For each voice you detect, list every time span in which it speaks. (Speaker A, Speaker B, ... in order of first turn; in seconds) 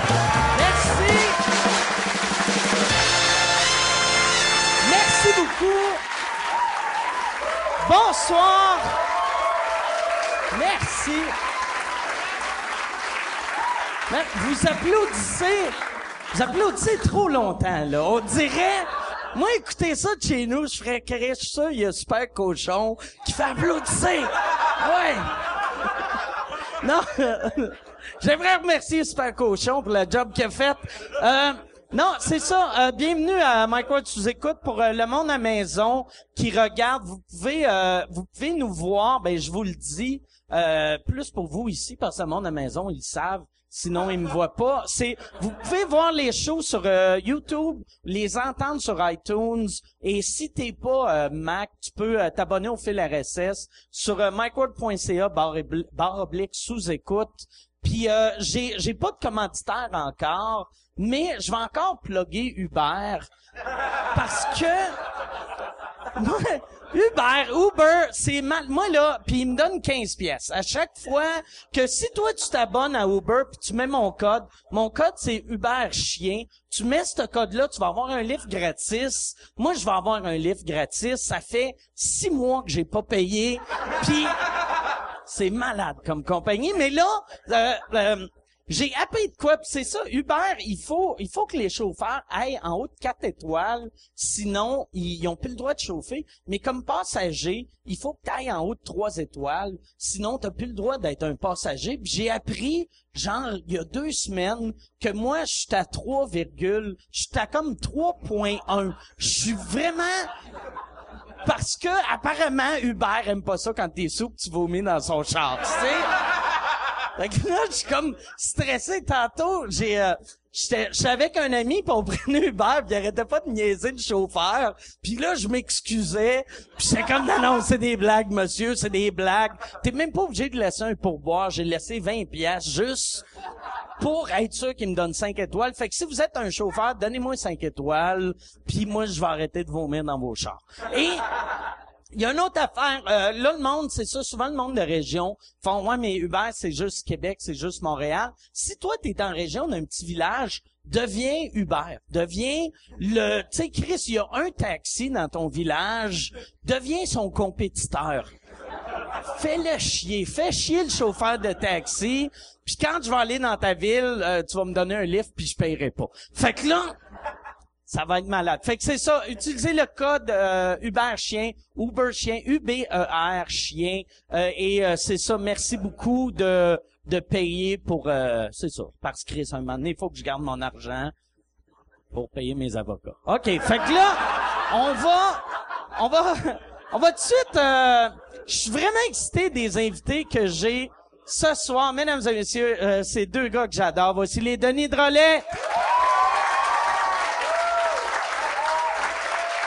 Speaker A: 0.5-1.4, 4.8-6.0, 7.8-9.0, 10.5-11.3, 14.1-15.8, 16.3-25.4, 26.8-63.3, 64.1-65.0, 66.2-84.3, 85.2-110.3, 111.4-116.1, 117.2-133.2, 134.0-141.2, 142.1-158.3, 159.2-167.0, 167.9-181.1, 182.1-195.5